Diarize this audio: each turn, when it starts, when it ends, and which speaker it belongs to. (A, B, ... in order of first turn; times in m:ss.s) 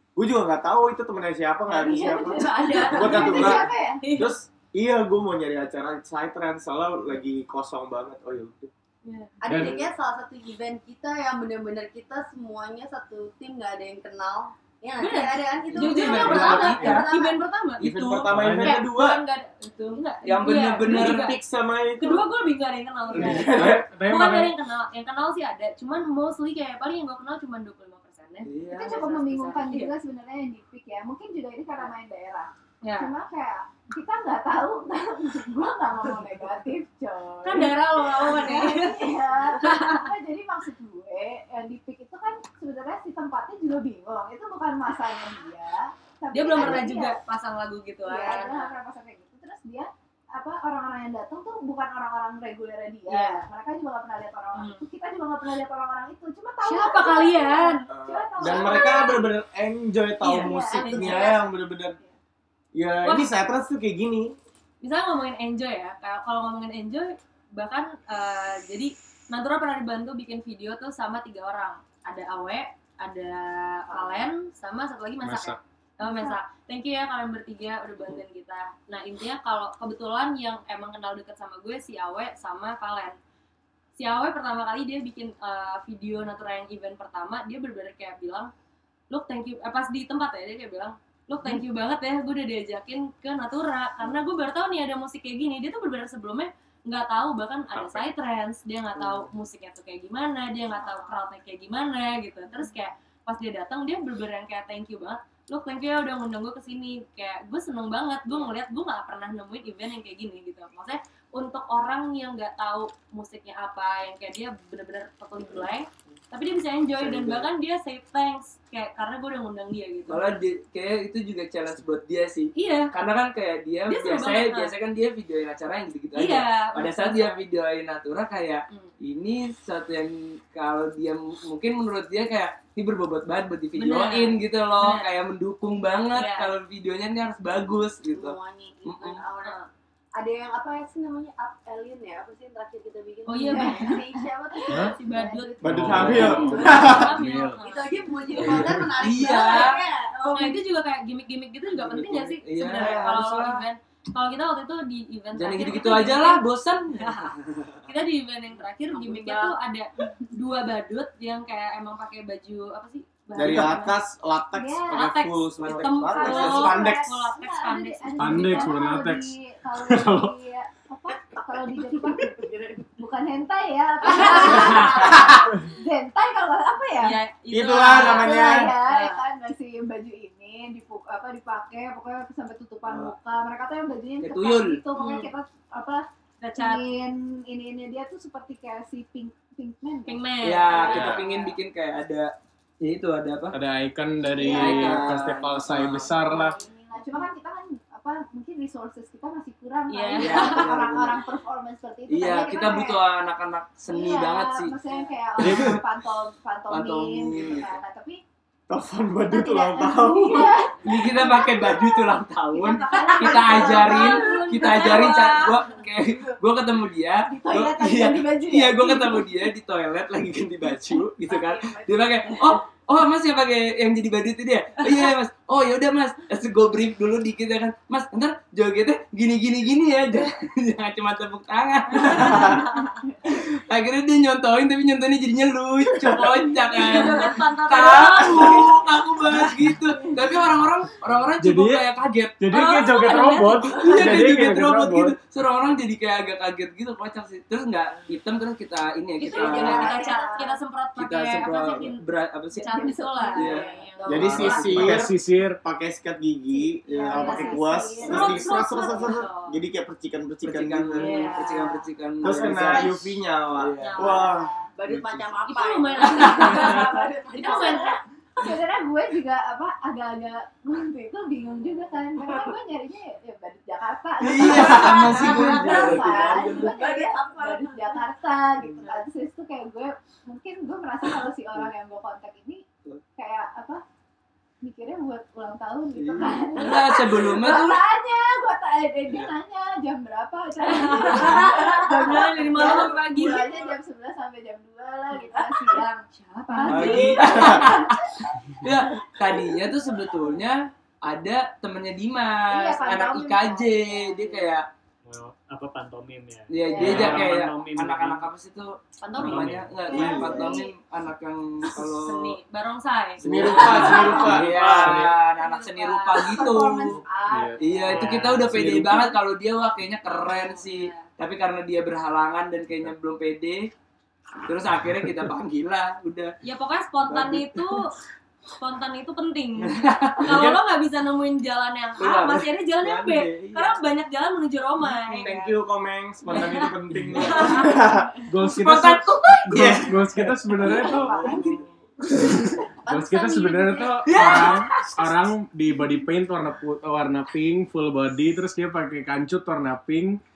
0:00.2-0:08.7 A
0:01.7-0:04.1 B
0:01.9-0:03.3 C
0:02.0-0:04.3 D
0:09.0-0:09.3 D
0:09.4-0:17.5 C
0:09.4-0:09.9 E
0:15.0-0:17.8 D
0:15.7-0:17.0 F
0:16.2-0:16.9 A
0:16.3-0:17.0 E
0:17.8-0:19.2 A
0:17.8-0:18.3 F
0:18.3-0:18.8 E
0:18.6-0:21.4 D
0:19.8-0:21.3 F
0:20.8-0:22.3 A
0:22.0-0:29.9 D
0:23.1-0:23.9 A
0:23.2-0:24.5 E
0:28.4-0:29.0 F
0:28.7-0:47.2 B
0:32.8-0:33.1 D
0:37.4-0:40.0 D
0:46.3-0:48.8 D
0:48.0-0:59.3 B
0:53.1-0:53.5 D
0:54.6-0:54.8 D
0:56.6-0:57.8 D
0:57.9-1:02.0 A
0:58.4-0:59.2 D
1:00.2-1:02.2 B
1:00.2-1:01.4 D
1:02.8-1:04.3 A
1:03.0-1:03.3 D
1:04.8-1:23.2 D
1:15.2-1:15.6 E
1:16.0-1:16.4 B
1:24.0-1:28.5 D
1:29.1-2:00.3 D
1:40.8-1:41.3 B
1:57.0-1:57.4 F
2:00.1-2:19.2 F
2:02.6-2:02.9 D
2:03.9-2:04.7 D
2:06.1-2:07.4 D
2:13.8-2:15.0 D
2:16.1-2:16.5 D
2:18.1-2:19.6 C
2:20.2-2:30.6 C
2:23.3-2:24.1 D
2:23.5-2:24.0 B
2:24.8-2:27.0 B
2:24.9-2:27.9 D
2:25.6-2:27.6 E
2:25.7-2:27.0 A
2:28.4-2:29.7 F
2:29.0-2:36.4 D
2:31.7-2:33.6 F
2:35.4-2:37.8 F
2:37.9-2:44.0 D
2:39.1-2:40.1 B
2:43.3-2:47.1 A
2:43.4-2:43.7 E
2:44.5-2:52.4 B
2:45.0-2:48.8 D
2:48.2-2:50.3 E
2:51.2-2:52.8 C
2:53.0-2:57.2 B
2:54.1-2:55.1 D
2:54.3-2:55.2 F
2:57.0-2:59.2 D
2:57.5-2:58.7 A
2:57.9-3:11.6 B
3:02.8-3:03.1 F
3:04.2-3:04.8 F
3:04.9-3:05.3 D
3:06.4-3:06.8 D
3:10.1-3:10.9 D
3:10.4-3:13.6 F
3:10.9-3:11.2 E
3:13.5-3:16.6 E
3:14.4-3:23.0 B
3:14.4-3:14.8 C
3:14.4-3:16.1 F
3:16.0-3:17.1 C
3:19.9-3:20.7 D
3:20.2-3:21.2 F
3:22.1-3:24.7 F
3:23.9-3:28.2 B
3:24.9-3:25.2 D
3:25.4-3:25.8 F
3:25.4-3:25.8 E
3:26.7-3:27.8 F
3:28.7-3:30.5 A
3:29.2-3:35.5 B
3:30.8-3:52.7 F
3:32.9-3:35.6 D
3:37.2-3:39.3 B
3:41.3-3:42.3 C
3:52.0-3:53.1 B
3:52.0-3:52.8 D
3:53.2-4:02.4 F
3:56.1-3:57.3 B
3:56.8-3:58.6 D
3:58.3-3:58.8 B
4:01.4-4:01.8 E
4:02.4-4:05.1 E
4:02.5-4:03.8 D
4:03.8-4:10.0 F
4:09.2-4:12.0 D
4:09.3-4:10.5 B
4:09.3-4:10.5 C
4:11.0-4:12.8 F
4:12.6-4:14.6 B
4:12.6-4:14.7 D
4:13.3-4:15.0 F
4:13.4-4:14.4 C
4:14.0-4:21.3 A
4:14.2-4:15.6 E
4:16.5-4:19.2 B
4:16.9-4:17.4 F
4:17.2-4:17.8 C
4:18.1-4:19.6 D
4:20.4-4:24.1 F
4:21.0-4:21.8 D
4:21.0-4:22.9 B
4:22.2-4:24.5 A
4:23.8-4:24.3 D
4:24.0-4:24.7 B
4:24.7-4:28.0 C
4:24.9-4:25.2 E
4:25.5-4:28.0 D
4:26.1-4:26.8 F
4:26.3-4:42.6 B
4:34.2-4:36.7 F
4:34.4-4:35.3 A
4:35.2-4:38.1 C
4:38.6-4:38.8 F
4:38.8-4:39.0 C
4:43.2-4:43.8 B
4:44.6-4:58.7 B
4:45.9-4:47.8 F
4:50.6-4:53.5 D
4:51.1-4:51.5 F
4:52.5-4:52.9 F
4:53.2-4:53.7 C
4:55.7-4:57.3 D
4:56.7-5:04.6 F
4:59.3-5:00.1 B
5:02.5-5:04.5 B
5:05.1-5:08.3 G
5:06.5-5:12.4 F
5:06.6-5:07.2 B
5:06.9-5:07.3 E
5:09.0-5:09.4 D
5:09.1-5:10.4 G
5:09.2-5:09.5 E
5:09.9-5:10.7 B
5:12.0-5:13.2 D
5:13.2-5:15.1 A
5:13.2-5:17.0 F
5:13.4-5:15.1 E
5:15.3-5:16.6 D
5:16.2-5:18.6 B
5:16.9-5:19.1 E
5:17.6-5:23.7 F
5:20.1-5:21.1 D
5:24.4-5:26.3 F
5:26.4-5:28.0 D
5:27.1-5:27.8 F
5:28.6-5:35.4 D
5:29.6-5:30.5 F
5:30.3-5:30.6 E
5:32.0-5:33.8 F
5:34.8-5:38.2 A
5:36.3-5:36.7 D
5:37.2-5:37.7 D
5:37.3-5:37.7 F
5:38.3-5:41.3 E
5:38.4-5:41.8 F
5:39.5-5:40.2 A
5:40.6-5:41.6 B
5:42.8-5:44.0 C
5:42.9-5:50.2 E
5:43.8-5:44.3 B
5:44.1-5:45.3 F